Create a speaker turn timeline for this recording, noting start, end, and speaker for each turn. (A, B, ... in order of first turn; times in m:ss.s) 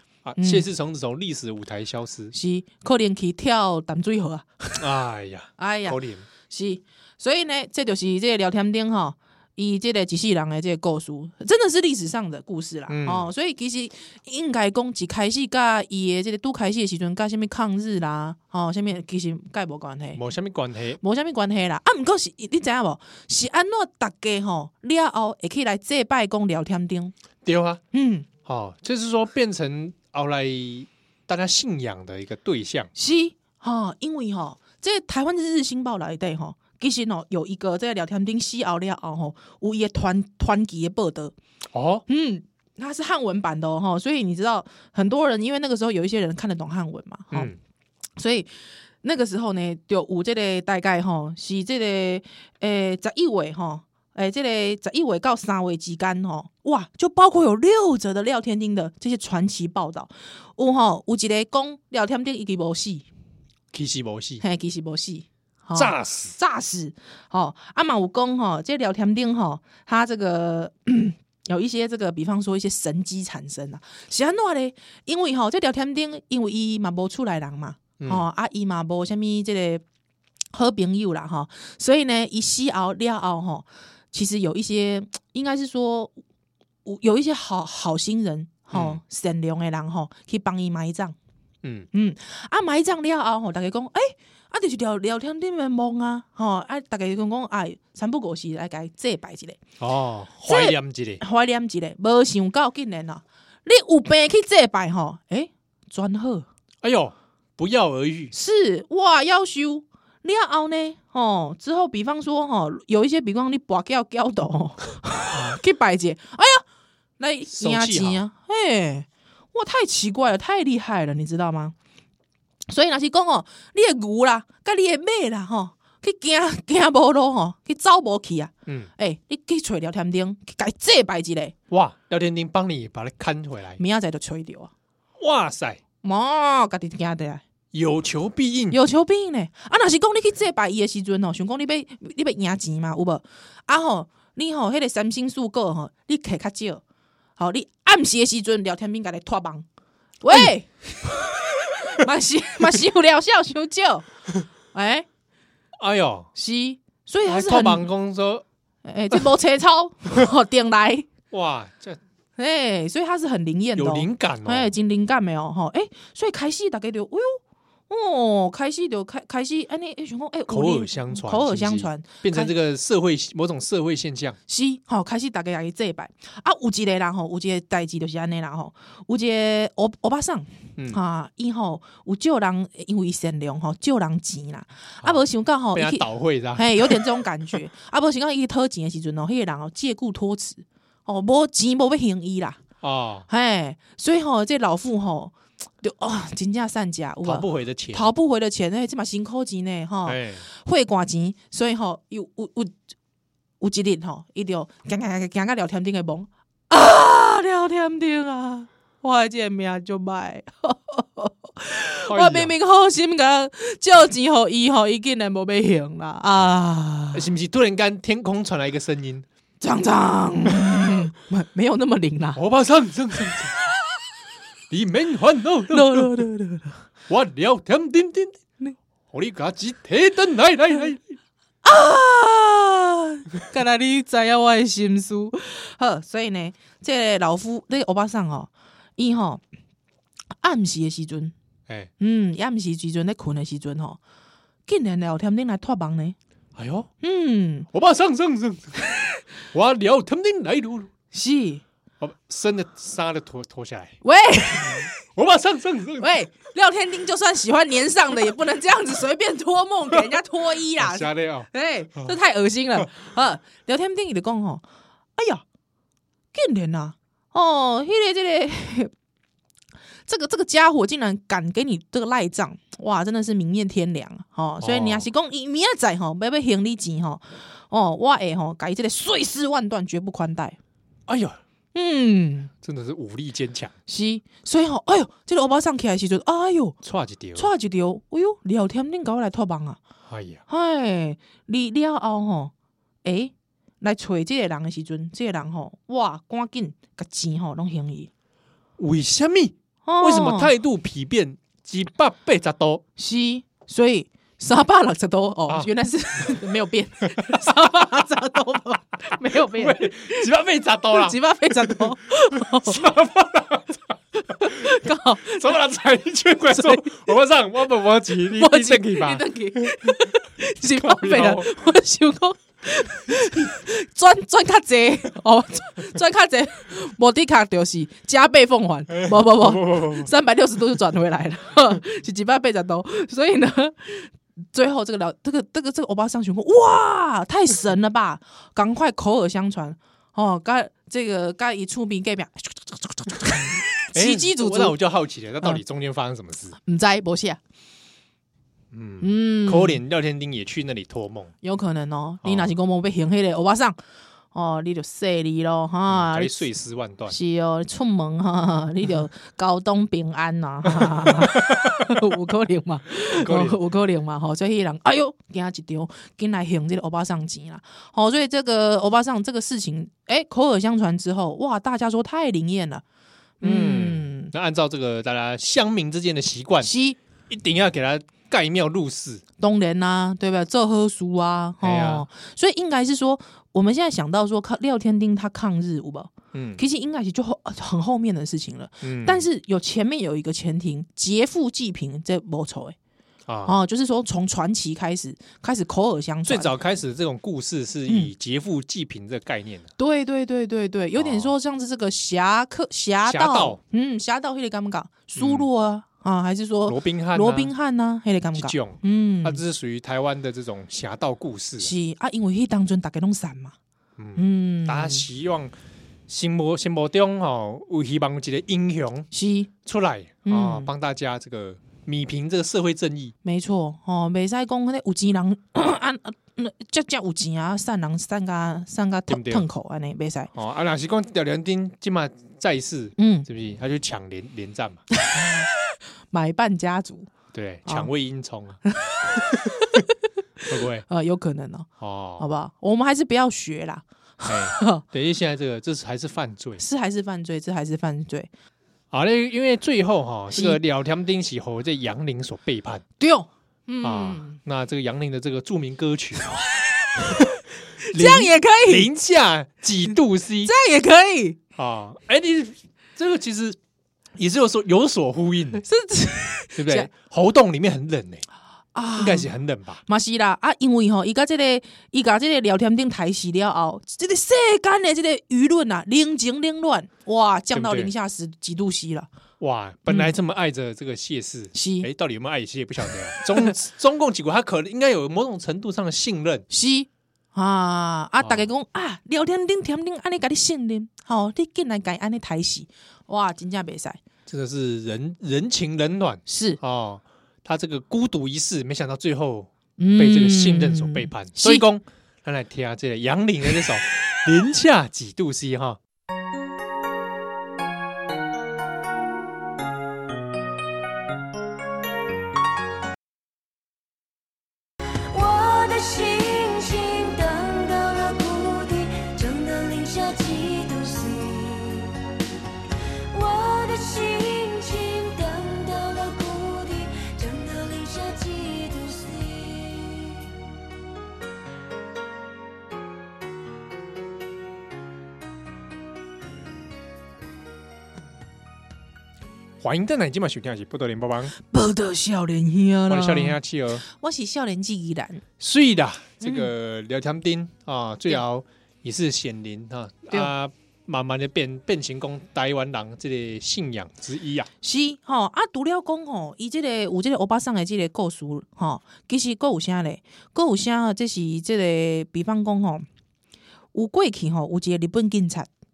0:00.2-0:02.3 A
0:00.4-0:00.7 B
0:02.3-0:04.8 B
0:04.8-0:06.3 A
0:05.6-0:20.2 B
0:12.9-0:13.3 A
0:20.2-0:21.0 A
0:21.0-0:27.1 B
0:27.4-0:27.8 A
0:27.9-0:28.3 B
0:28.4-0:32.9 A
0:33.0-0:41.3 B
0:41.7-0:42.0 A
0:42.1-0:47.5 B
0:47.3-0:47.6 A
0:48.2-0:48.5 B
0:49.0-1:03.1 B
1:03.7-1:04.4 A
1:04.4-1:19.8 B
1:05.8-1:06.4 A
1:18.0-1:18.3 A
1:20.5-1:26.2 B
1:26.8-1:31.2 B
1:28.7-1:29.0 A
1:31.6-1:31.9 A
1:31.9-1:39.6 B
1:39.8-1:41.2 A
1:40.4-1:46.5 B
1:46.8-1:48.3 A
1:48.3-1:56.6 B
1:55.3-1:55.6 A
1:57.2-2:01.8 B
1:57.5-1:58.2 A
2:02.7-2:11.6 B
2:11.7-2:13.8 A
2:13.8-2:14.7 B
2:15.2-2:15.8 A
2:16.0-2:17.4 B
2:17.7-2:18.8 A
2:18.7-2:26.8 B
2:27.4-2:29.7 B
2:30.2-2:34.1 B
2:34.7-2:35.1 B
2:35.8-2:36.3 A
2:36.4-2:37.9 B
2:37.3-2:38.4 A
2:38.8-2:41.1 B
2:41.3-2:42.0 A
2:42.4-2:52.5 B
2:43.8-2:44.7 A
2:50.5-2:54.4 A
2:54.5-3:12.6 B
3:05.0-3:07.1 A
3:12.8-3:13.3 A
3:13.3-3:22.7 B
3:17.2-3:18.1 A
3:20.1-3:20.4 A
3:23.6-3:37.3 B
3:32.1-3:32.5 A
3:37.1-3:39.2 A
3:39.6-3:42.4 B
3:42.4-3:43.6 A
3:44.7-3:46.2 A
3:45.7-3:46.8 B
3:47.1-3:48.4 A
3:49.1-3:51.0 A
3:51.6-3:59.4 B
4:00.4-4:01.3 B
4:02.0-4:04.0 B
4:04.7-4:06.2 B
4:06.6-4:06.9 A
4:07.0-4:07.7 B
4:07.7-4:08.8 A
4:09.5-4:10.9 A
4:11.1-4:11.6 B
4:12.0-4:14.0 A
4:14.0-4:14.9 B
4:14.6-4:16.1 A
4:16.0-4:24.6 B
4:20.8-4:22.1 A
4:25.2-4:25.4 B
4:26.3-4:28.9 B
4:30.1-4:40.6 B
4:34.6-4:35.1 A
4:41.1-4:41.4 A
4:41.7-4:42.5 B
4:42.6-4:43.7 A
4:43.9-4:46.8 B
4:46.8-4:47.5 A
4:47.4-4:49.8 B
4:50.1-4:50.4 A
4:50.5-4:52.5 B
4:53.0-4:58.1 B
4:58.8-5:02.8 A
4:59.8-5:00.5 B
5:03.0-5:10.3 B
5:07.2-5:07.7 A
5:09.3-5:20.1 A
5:10.9-5:12.8 B
5:14.2-5:15.6 B
5:16.5-5:16.9 B
5:18.3-5:44.8 B
5:20.8-5:21.5 A
5:29.0-5:30.1 A
5:43.9-5:46.6 A
5:46.6-5:47.4 B
5:48.7-5:51.3 A
5:49.0-5:49.8 B
5:51.4-5:53.8 B
5:52.2-5:52.5 A
5:54.3-5:56.4 B
5:55.9-5:57.2 A
5:57.1-6:12.8 B
6:00.8-6:01.9 A
6:03.1-6:03.6 A
6:13.4-6:14.3 B
6:13.4-6:16.7 A
6:16.6-6:17.0 B
6:17.3-6:19.2 A
6:19.4-6:32.8 B
6:21.6-6:22.1 A
6:26.3-6:26.6 A
6:28.8-6:29.3 A
6:33.3-6:33.6 A
6:33.5-6:36.5 B
6:36.3-6:39.7 A
6:39.8-6:49.4 B
6:41.0-6:41.3 A
6:43.1-6:43.6 A
6:45.2-6:45.5 A
6:46.7-6:47.5 A
6:48.4-6:51.7 A
6:51.6-6:53.6 B
6:54.0-6:55.6 A
6:54.2-6:55.1 B
6:56.1-6:59.1 A
6:59.1-6:59.5 B
6:59.6-7:03.2 A
7:00.3-7:00.7 B
7:03.2-7:10.3 B
7:09.1-7:09.5 A
7:10.3-7:14.8 A
7:13.0-7:13.3 B
7:15.0-7:15.5 B
7:16.1-7:17.1 B
7:17.3-7:18.6 A
7:17.7-7:17.9 B
7:18.7-7:19.9 B
7:20.5-7:20.8 A
7:20.9-7:21.7 B
7:21.8-7:22.2 A
7:22.2-7:24.8 B
7:24.3-7:26.6 A
7:26.6-7:28.3 B
7:28.9-7:32.8 A
7:30.3-7:30.6 B
7:33.0-7:34.4 B
7:33.8-7:36.4 A
7:36.3-7:38.9 B
7:37.0-7:37.4 A
7:37.9-7:40.5 A
7:40.4-7:41.4 B
7:41.6-7:43.6 A
7:44.2-7:45.6 A
7:45.6-7:46.9 B
7:46.6-7:48.2 A
7:48.8-7:49.3 B
7:49.0-7:49.8 A
7:49.9-7:59.1 B
7:57.5-7:57.9 A
7:59.4-8:06.4 A
8:01.5-8:01.9 B
8:06.5-8:14.0 B
8:08.2-8:08.5 A
8:14.3-8:25.8 A
8:16.3-8:16.6 B
8:19.8-8:21.6 B
8:35.1-8:42.0 C
8:43.1-8:50.4 C
8:59.6-9:01.3 A
9:01.4-9:05.2 B
9:02.9-9:03.8 A
9:05.4-9:14.5 A
9:06.2-9:06.5 B
9:14.6-9:22.9 B
9:23.7-9:25.5 B